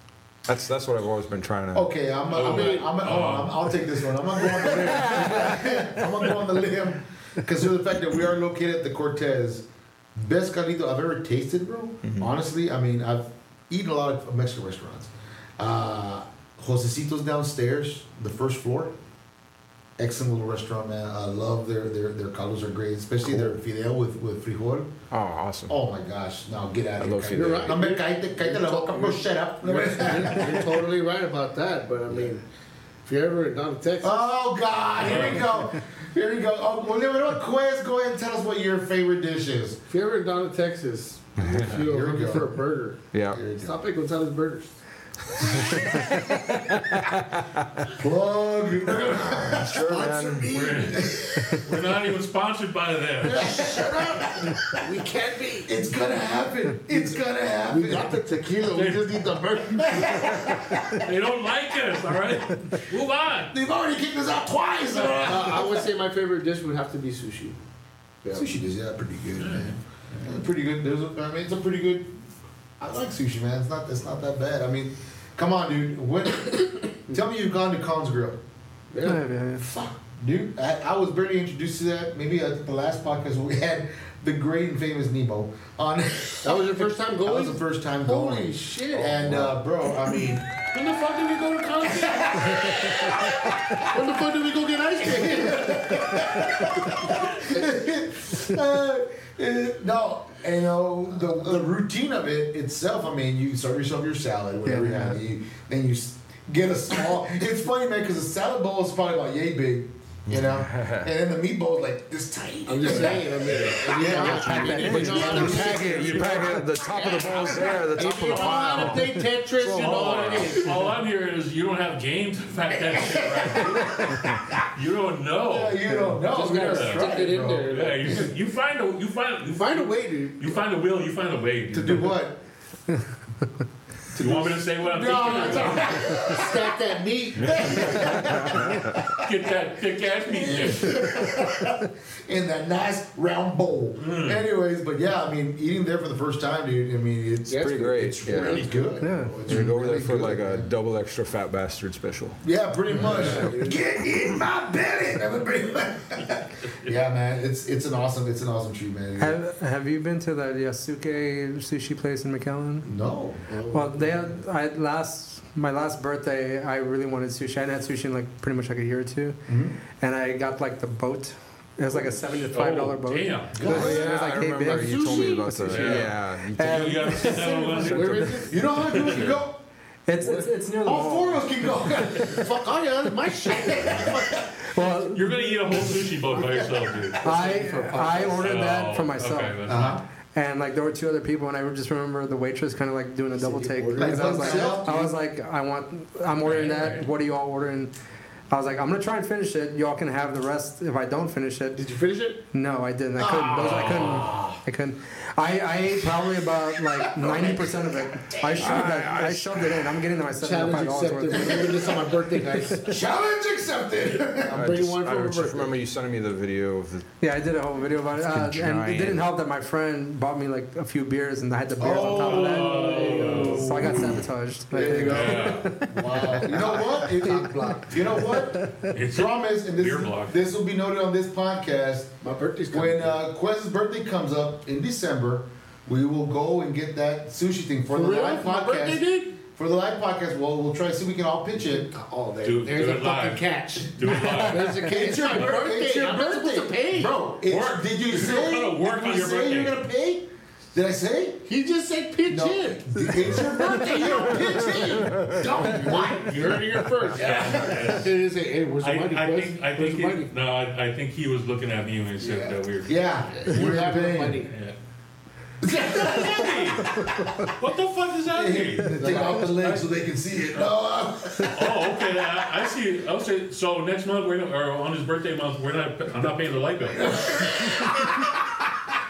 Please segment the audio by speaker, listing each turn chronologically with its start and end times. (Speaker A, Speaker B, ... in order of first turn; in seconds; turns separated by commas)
Speaker A: 0.5-1.9, Speaker B: 1.7-18.9, Speaker C: 2.3-3.7, Speaker D: 2.4-3.0, Speaker A: 4.9-5.6, Speaker B: 20.0-25.0, Speaker A: 25.1-25.7, Speaker B: 25.7-30.8, Speaker A: 27.0-27.8, Speaker D: 27.3-32.4, Speaker D: 33.0-34.3, Speaker B: 34.0-39.8, Speaker C: 35.0-35.5, Speaker D: 39.9-44.8, Speaker A: 41.4-41.8, Speaker B: 41.5-42.5, Speaker A: 43.1-43.4, Speaker B: 43.3-43.8, Speaker A: 45.4-47.9, Speaker B: 47.9-51.7, Speaker A: 49.2-50.6, Speaker C: 50.5-53.5, Speaker B: 53.2-54.8, Speaker D: 53.2-55.7, Speaker B: 55.6-58.2, Speaker D: 57.7-60.3, Speaker C: 58.7-59.4, Speaker B: 59.8-60.9, Speaker C: 60.9-63.5, Speaker B: 63.4-65.9, Speaker C: 64.9-65.5, Speaker D: 65.0-67.6, Speaker D: 68.2-68.5, Speaker B: 68.3-72.1, Speaker C: 69.4-69.8, Speaker B: 72.8-78.4, Speaker D: 78.9-79.2, Speaker E: 79.0-79.7, Speaker B: 79.6-90.5, Speaker D: 86.4-89.3, Speaker D: 90.7-97.6, Speaker B: 91.8-93.9, Speaker B: 95.0-116.0, Speaker E: 104.7-105.2, Speaker A: 110.3-111.1, Speaker D: 112.7-120.9, Speaker C: 113.5-113.8, Speaker A: 114.0-120.6, Speaker E: 114.1-116.6, Speaker C: 118.1-119.1, Speaker C: 119.6-132.1, Speaker B: 123.0-124.5, Speaker B: 125.4-128.3, Speaker D: 126.2-128.3, Speaker D: 129.4-130.6, Speaker B: 131.7-132.4, Speaker C: 134.1-136.2, Speaker B: 134.1-136.8, Speaker D: 136.2-138.3, Speaker B: 137.4-139.3, Speaker A: 138.2-138.9, Speaker C: 139.2-141.1, Speaker B: 140.2-150.7, Speaker C: 144.0-144.4, Speaker D: 147.5-149.1, Speaker A: 147.5-148.7, Speaker E: 149.0-149.7, Speaker A: 149.4-152.4, Speaker B: 152.4-159.4, Speaker D: 152.9-153.8, Speaker E: 159.2-162.9, Speaker B: 162.8-163.4, Speaker D: 163.5-164.4, Speaker E: 163.7-169.4, Speaker B: 169.5-169.8, Speaker E: 170.0-178.3, Speaker D: 171.9-172.4, Speaker C: 172.5-173.6, Speaker B: 173.5-174.1, Speaker A: 173.6-178.4, Speaker D: 173.7-174.1, Speaker D: 174.6-175.9, Speaker C: 175.7-179.4, Speaker D: 177.4-179.3, Speaker B: 178.4-179.6, Speaker E: 180.1-182.3, Speaker D: 180.2-180.5, Speaker B: 180.8-184.5, Speaker D: 182.4-184.5, Speaker E: 184.6-186.1, Speaker C: 185.1-187.2, Speaker B: 186.3-186.8, Speaker D: 187.1-188.5, Speaker E: 187.2-189.6, Speaker C: 188.3-190.0, Speaker B: 189.6-190.0, Speaker E: 190.3-197.9, Speaker D: 193.4-195.1, Speaker B: 194.0-195.1, Speaker C: 196.4-197.1, Speaker E: 198.5-201.8, Speaker D: 201.7-202.4, Speaker E: 202.5-212.0, Speaker B: 203.2-204.6, Speaker C: 203.5-204.3, Speaker B: 206.9-208.8, Speaker A: 208.6-209.9, Speaker D: 210.4-212.9, Speaker B: 211.4-212.0, Speaker E: 212.5-212.8, Speaker B: 212.8-214.7, Speaker D: 214.4-215.7, Speaker A: 214.5-217.1, Speaker E: 217.2-228.9, Speaker A: 218.2-219.3, Speaker B: 221.8-224.2, Speaker C: 222.0-224.0, Speaker D: 222.4-223.9, Speaker B: 224.7-232.1, Speaker C: 224.9-225.7, Speaker C: 228.9-230.4, Speaker D: 232.2-233.2, Speaker B: 232.7-242.0, Speaker D: 237.9-239.4, Speaker D: 241.5-247.2, Speaker C: 242.4-245.6, Speaker E: 244.1-244.7, Speaker B: 244.8-251.5, Speaker C: 247.4-249.8, Speaker D: 251.5-260.3, Speaker B: 252.3-258.0, Speaker A: 254.6-255.4, Speaker C: 257.1-258.1, Speaker C: 258.8-263.7, Speaker B: 262.2-264.4, Speaker D: 263.4-264.5, Speaker C: 264.5-264.8, Speaker B: 265.6-267.3, Speaker C: 265.9-269.8, Speaker E: 267.0-267.4, Speaker B: 268.2-272.0, Speaker D: 269.0-269.6, Speaker C: 271.4-277.4, Speaker B: 277.0-278.5